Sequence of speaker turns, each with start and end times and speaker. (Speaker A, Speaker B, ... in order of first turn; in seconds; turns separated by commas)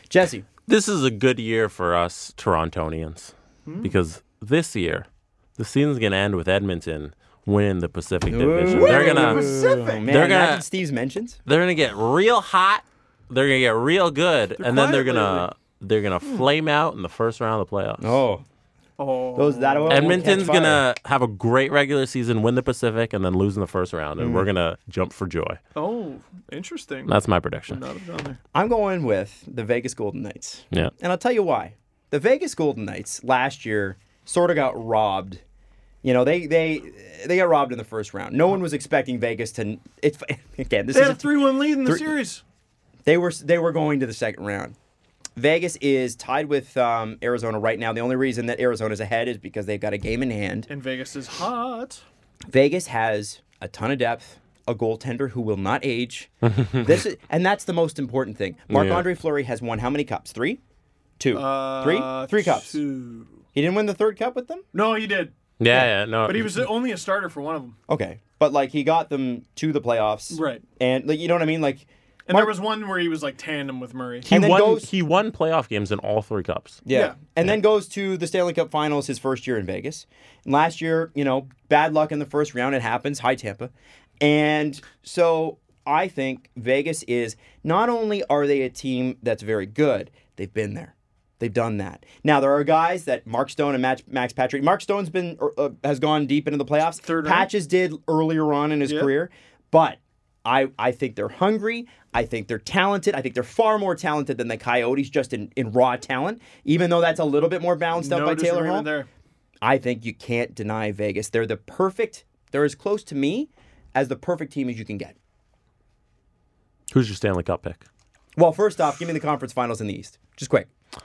Speaker A: 0.1-0.5, Speaker B: 0.7-9.4, Speaker C: 3.6-3.9, Speaker A: 8.3-11.4, Speaker C: 8.7-10.1, Speaker B: 10.0-10.7, Speaker B: 11.4-18.2, Speaker C: 14.6-15.5, Speaker A: 18.0-18.4, Speaker C: 19.0-20.4, Speaker A: 19.3-20.8, Speaker B: 19.9-25.6, Speaker A: 24.2-24.5, Speaker C: 25.8-27.1, Speaker B: 27.1-27.8, Speaker C: 27.7-28.4, Speaker A: 28.5-35.4, Speaker A: 36.0-42.1, Speaker C: 40.9-42.4, Speaker A: 43.0-44.8, Speaker A: 45.4-50.7, Speaker C: 50.7-52.0, Speaker A: 52.5-60.6, Speaker B: 56.5-56.9, Speaker B: 58.7-59.0, Speaker A: 61.2-62.8, Speaker C: 61.3-63.4, Speaker A: 63.5-64.6, Speaker C: 64.7-67.8, Speaker B: 65.6-66.6, Speaker A: 67.9-72.5, Speaker C: 70.3-70.6, Speaker C: 72.3-74.3, Speaker B: 74.2-76.8, Speaker A: 74.3-74.9, Speaker A: 76.8-108.9, Speaker C: 76.9-77.2, Speaker C: 97.0-97.5, Speaker C: 98.8-99.1, Speaker C: 107.9-109.1, Speaker A: 109.6-115.2, Speaker B: 116.9-117.8, Speaker A: 118.3-120.7